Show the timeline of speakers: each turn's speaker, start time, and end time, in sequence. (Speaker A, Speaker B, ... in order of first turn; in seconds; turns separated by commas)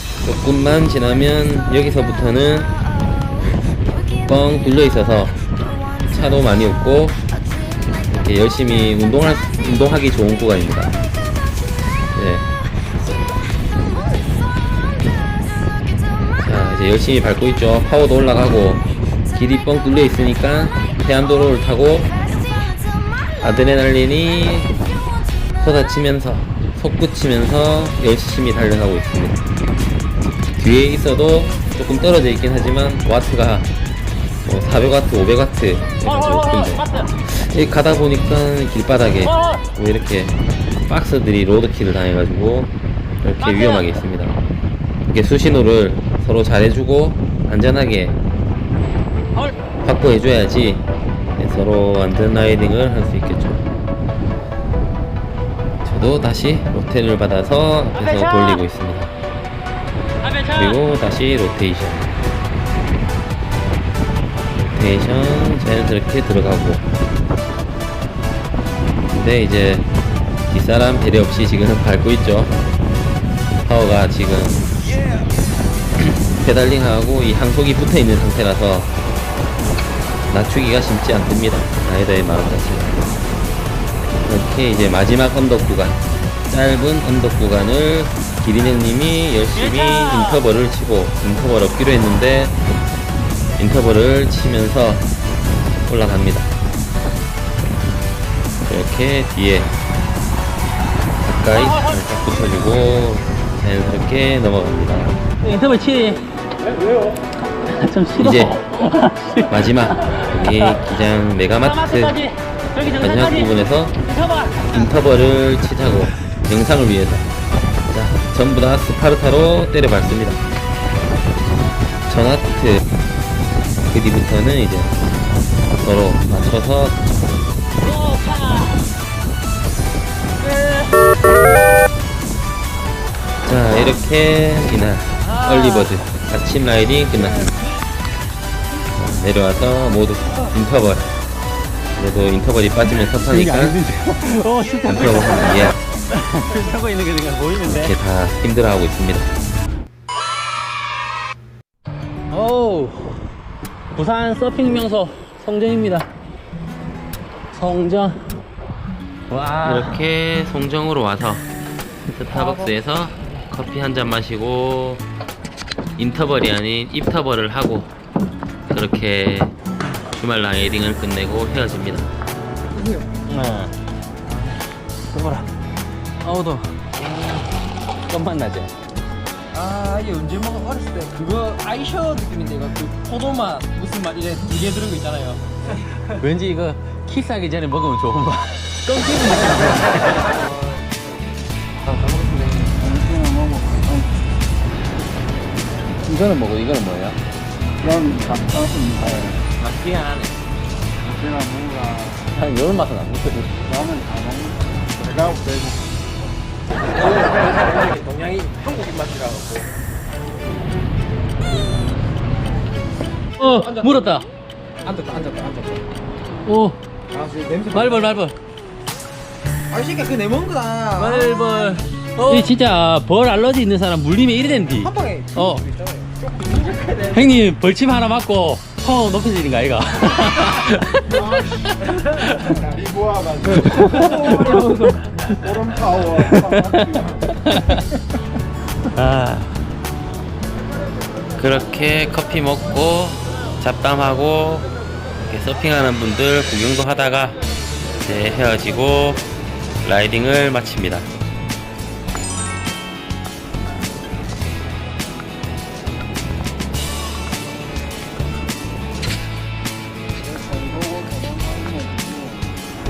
Speaker A: 0.2-2.8, Speaker A: 4.2-5.3, Speaker A: 6.0-7.2, Speaker A: 8.1-11.0, Speaker A: 12.1-12.4, Speaker A: 16.4-22.1, Speaker A: 23.4-24.7, Speaker A: 25.6-29.4, Speaker A: 30.6-33.7, Speaker A: 34.4-40.4, Speaker B: 36.1-37.1, Speaker A: 40.9-44.4, Speaker B: 43.4-43.8, Speaker A: 45.1-48.2, Speaker A: 49.8-50.9, Speaker A: 51.4-53.6, Speaker A: 55.8-59.1, Speaker B: 58.0-58.6, Speaker B: 60.2-60.8, Speaker A: 60.5-62.1, Speaker A: 64.6-66.8, Speaker A: 69.1-69.9, Speaker A: 70.5-72.5, Speaker A: 73.7-74.7, Speaker A: 76.0-78.9, Speaker A: 80.3-83.1, Speaker A: 84.2-92.5, Speaker B: 89.6-90.4, Speaker A: 93.6-95.0, Speaker A: 95.9-96.5, Speaker A: 98.7-99.7, Speaker A: 101.2-105.2, Speaker B: 105.4-106.2, Speaker B: 107.6-110.8, Speaker A: 108.2-108.6, Speaker A: 109.5-112.2, Speaker B: 111.6-113.5, Speaker A: 113.0-114.0, Speaker B: 114.1-114.6, Speaker A: 114.7-117.3, Speaker A: 117.9-120.4, Speaker A: 122.1-122.8, Speaker A: 123.9-124.9, Speaker A: 125.8-127.0, Speaker B: 127.8-128.8, Speaker B: 130.4-130.9, Speaker A: 133.4-137.5, Speaker B: 135.2-135.9, Speaker A: 138.9-141.1, Speaker A: 141.9-143.8, Speaker B: 143.1-147.9, Speaker A: 144.8-145.8, Speaker A: 147.7-149.3, Speaker B: 152.3-153.3, Speaker B: 153.9-156.1, Speaker B: 157.5-158.4, Speaker B: 159.3-160.0, Speaker A: 159.6-161.5, Speaker A: 162.2-165.0, Speaker B: 162.3-162.7, Speaker A: 166.0-167.9, Speaker A: 168.7-169.5, Speaker A: 170.1-172.1, Speaker C: 172.7-173.1, Speaker B: 173.3-173.7, Speaker B: 175.1-175.5, Speaker B: 176.2-177.4, Speaker B: 178.1-178.7, Speaker C: 179.5-185.4, Speaker B: 186.0-190.2, Speaker C: 189.0-190.8, Speaker C: 192.0-192.7, Speaker D: 192.7-194.1, Speaker B: 196.0-197.2, Speaker D: 197.8-199.4, Speaker B: 199.0-200.3, Speaker D: 201.0-202.3, Speaker B: 202.3-203.6, Speaker D: 203.6-205.9, Speaker C: 206.9-209.7, Speaker B: 213.4-214.2, Speaker C: 213.6-214.0, Speaker C: 214.8-215.8, Speaker B: 216.4-216.8, Speaker C: 217.1-218.1, Speaker B: 217.7-218.3, Speaker C: 219.7-222.5, Speaker B: 221.0-225.6, Speaker C: 224.8-227.3, Speaker B: 227.1-232.6, Speaker D: 232.8-234.3, Speaker B: 233.4-235.0, Speaker C: 234.1-235.9, Speaker D: 235.4-236.9, Speaker B: 236.0-237.9, Speaker B: 238.9-239.6, Speaker A: 241.4-244.7, Speaker A: 245.2-247.4, Speaker A: 248.0-249.2, Speaker A: 249.8-251.1, Speaker D: 260.2-262.5